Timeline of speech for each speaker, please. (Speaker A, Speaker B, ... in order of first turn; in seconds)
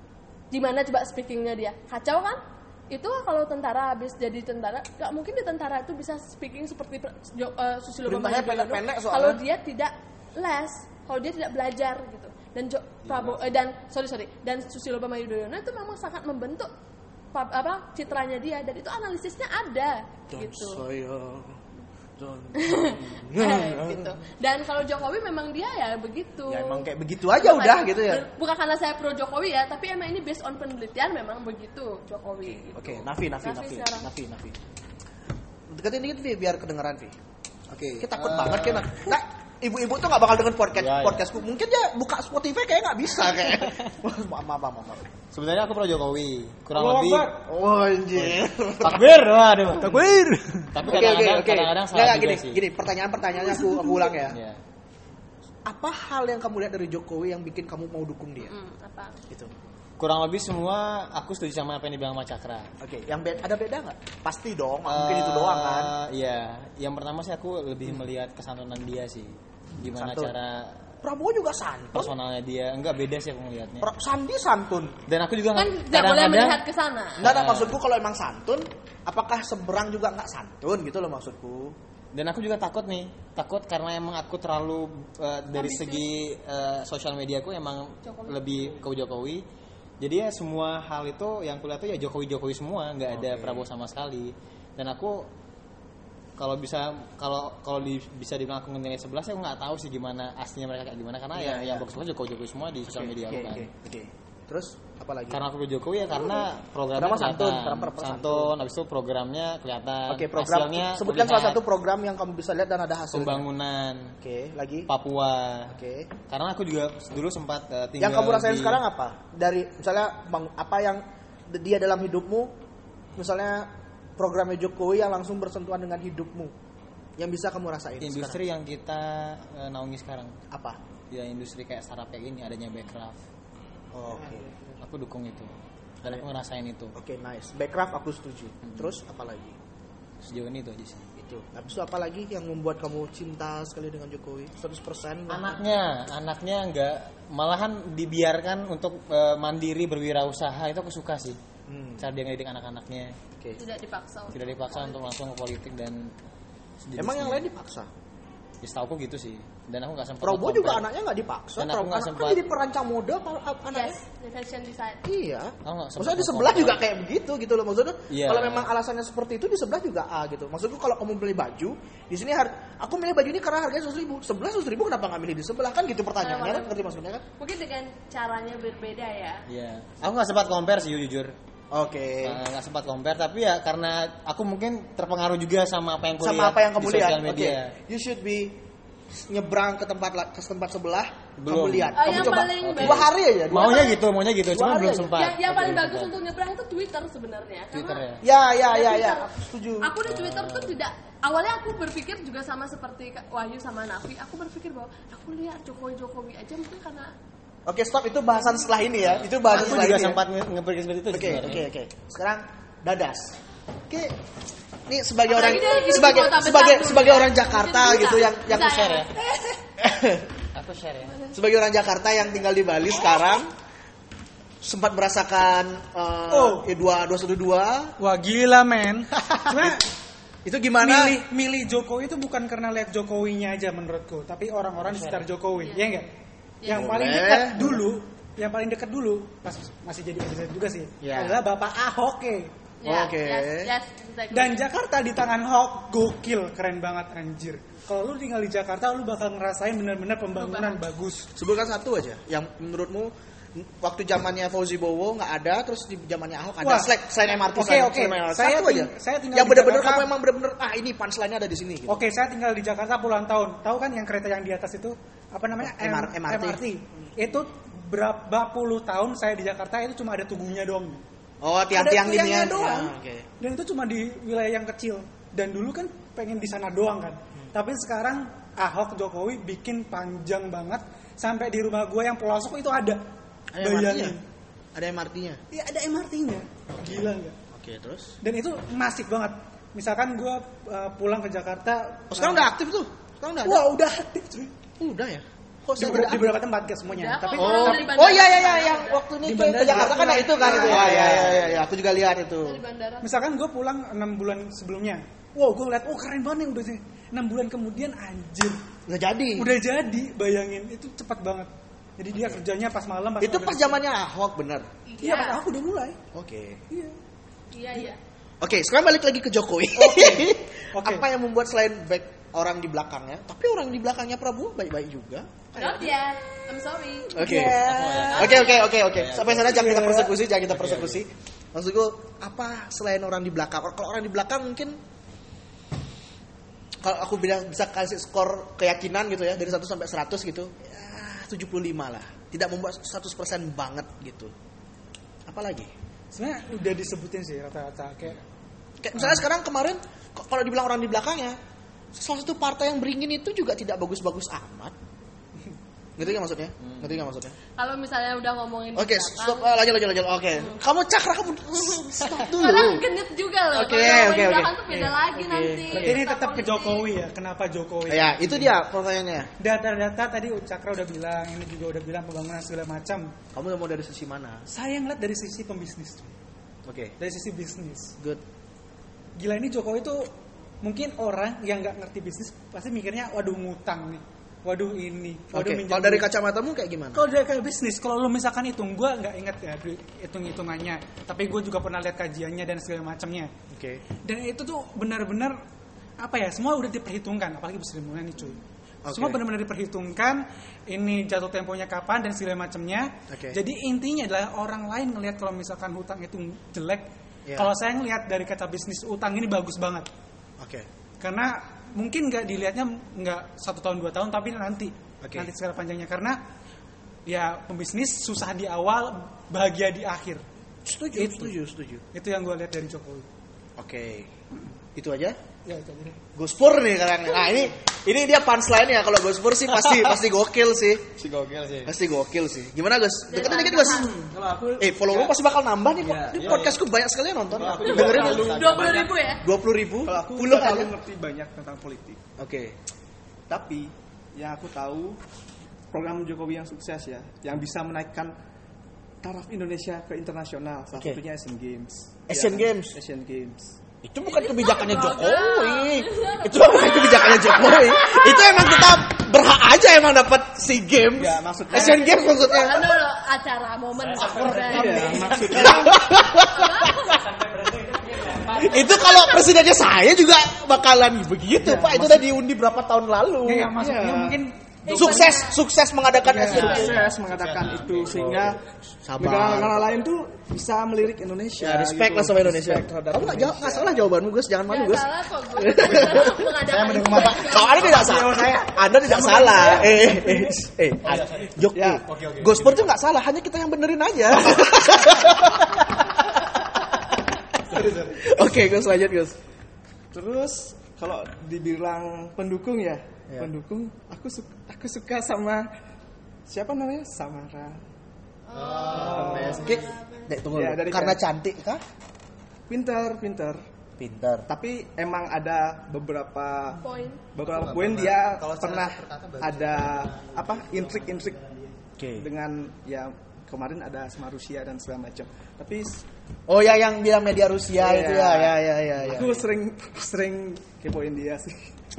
Speaker A: 0.5-16.7, 17.3-20.8, 22.6-34.1, 58.4-59.2, 75.5-77.2, 85.5-86.0, 88.0-88.8, 153.6-155.0, 163.7-165.0, 176.2-176.8, 177.4-179.4, 191.9-193.7, 195.1-198.0, 198.6-199.3, 199.8-207.1, 215.3-219.1, 235.6-235.9, 236.6-236.9, 242.8-244.6, 250.3-250.8, 296.9-299.1, 302.4-303.1, 314.9-315.4, 317.5-318.0, 325.6-327.1, 328.1-328.7, 357.6-359.5, 361.6-366.9, 433.1-434.0, 437.6-439.2, 454.1-458.8, 461.5-467.0, 468.5-469.2, 474.6-475.4, 484.5-487.7, 508.3-510.2, 516.6-517.0
Speaker B: 8.1-9.4, 20.3-21.6, 22.2-24.2, 26.5-28.2, 32.4-34.6, 35.7-37.2, 37.7-45.0, 47.4-49.1, 49.9-50.1, 50.8-54.4, 55.7-58.5, 62.8-65.9, 70.0-70.3, 71.0-72.1, 73.8-75.0, 77.2-81.8, 93.1-93.7, 101.3-101.9, 102.9-105.4, 106.2-106.5, 107.0-108.5, 110.1-113.4, 114.2-114.9, 115.7-116.1, 118.0-122.5, 123.2-126.5, 127.2-128.4, 130.5-130.8, 133.9-134.4, 136.9-139.6, 141.2-145.6, 151.7-152.1, 157.0-157.9, 160.2-164.0, 165.0-177.2, 181.7-182.4, 186.2-188.6, 189.1-194.0, 194.5-195.2, 198.2-199.9, 207.7-210.2, 211.1-213.4, 213.9-214.2, 214.9-218.8, 219.8-220.3, 221.3-223.5, 224.6-227.9, 229.2-229.8, 230.4-231.2, 236.7-237.8, 241.0-241.4, 242.8-243.7, 251.4-262.0, 265.6-266.6, 271.4-273.3, 283.5-284.2, 284.8-285.4, 286.8-288.2, 292.1-293.7, 294.8-296.4, 297.4-302.6, 308.9-309.5, 312.2-312.4, 313.2-316.7, 318.4-326.0, 327.1-334.8, 336.8-344.3, 345.3-345.7, 348.8-351.4, 351.9-354.7, 356.0-357.4, 358.8-362.9, 363.5-364.5, 365.1-366.0, 367.9-369.3, 373.3-374.5, 376.7-377.0, 385.3-387.1, 393.5-393.8, 398.9-399.2, 403.1-403.4, 410.4-410.7, 415.0-415.3, 420.6-421.8, 423.6-424.1, 424.8-425.2, 426.1-430.9, 431.6-434.0, 434.6-440.7, 442.2-442.6, 452.1-452.8, 453.8-462.8, 465.1-467.0, 468.4-473.5, 474.7-476.8, 478.9-479.7, 481.4-486.3, 486.9-496.7, 497.9-499.2, 509.2-511.6, 513.8-514.3, 521.8-522.1, 526.3-529.2
Speaker C: 13.1-13.4, 38.0-39.0, 40.8-41.2, 45.3-47.3, 48.2-50.1, 50.7-52.6, 54.2-54.6, 60.0-62.7, 64.9-70.8, 71.9-73.9, 75.1-76.6, 77.2-77.8, 82.1-89.4, 90.0-95.3, 96.4-103.7, 105.3-111.6, 113.1-114.1, 114.9-115.8, 116.3-118.8, 128.0-130.3, 131.1-133.2, 134.1-135.5, 136.0-137.0, 140.2-141.1, 145.3-151.4, 152.0-153.2, 154.3-156.1, 156.8-157.4, 158.6-160.8, 161.6-162.4, 165.7-166.8, 168.1-168.7, 179.5-181.3, 182.2-187.8, 191.4-196.2, 197.7-198.2, 200.1-200.8, 209.0-211.7, 218.5-219.1, 220.5-221.2, 234.8-235.3, 300.4-301.6, 327.2-329.7, 330.5-331.0, 356.6-357.0, 431.0-431.7, 435.9-436.6, 437.3-438.9, 463.8-465.6, 466.9-468.9, 476.3-478.4, 486.4-488.1, 490.8-491.3, 491.9-492.7, 497.5-498.0, 508.3-509.6, 517.3-521.5
Speaker D: 46.8-47.4, 49.8-50.7, 226.3-226.7, 228.0-229.8, 230.8-236.1, 236.6-242.5, 244.3-251.3, 256.6-260.1, 261.9-271.0, 271.7-283.0, 283.6-284.2, 285.5-287.4, 288.2-292.5, 293.4-294.5, 295.8-298.1, 299.2-301.4, 303.0-308.6, 309.4-313.8, 315.1-315.4, 319.8-321.1, 327.3-328.3, 329.4-330.1, 346.1-348.2, 364.7-365.0, 365.7-368.5, 369.4-373.1, 374.5-376.1, 377.0-377.9, 379.2-380.1, 380.6-386.1, 386.9-393.3, 394.0-395.4, 396.0-409.9, 411.0-416.2, 417.1-420.2, 420.9-421.4, 421.9-423.1, 425.4-426.0, 473.2-475.2, 476.1-476.6
Speaker E: 433.9-434.6, 435.9-436.3, 437.4-438.9, 439.8-442.0, 443.3-445.0, 445.7-448.1, 449.0-453.6, 461.0-462.0, 464.3-465.8, 471.4-472.0, 473.6-474.2, 476.1-478.4, 479.0-483.8, 487.7-490.4, 491.5-491.9, 499.9-505.5, 506.3-507.6, 508.7-509.6, 510.3-511.0, 512.5-513.4, 514.3-521.2, 522.0-525.8, 527.6-531.5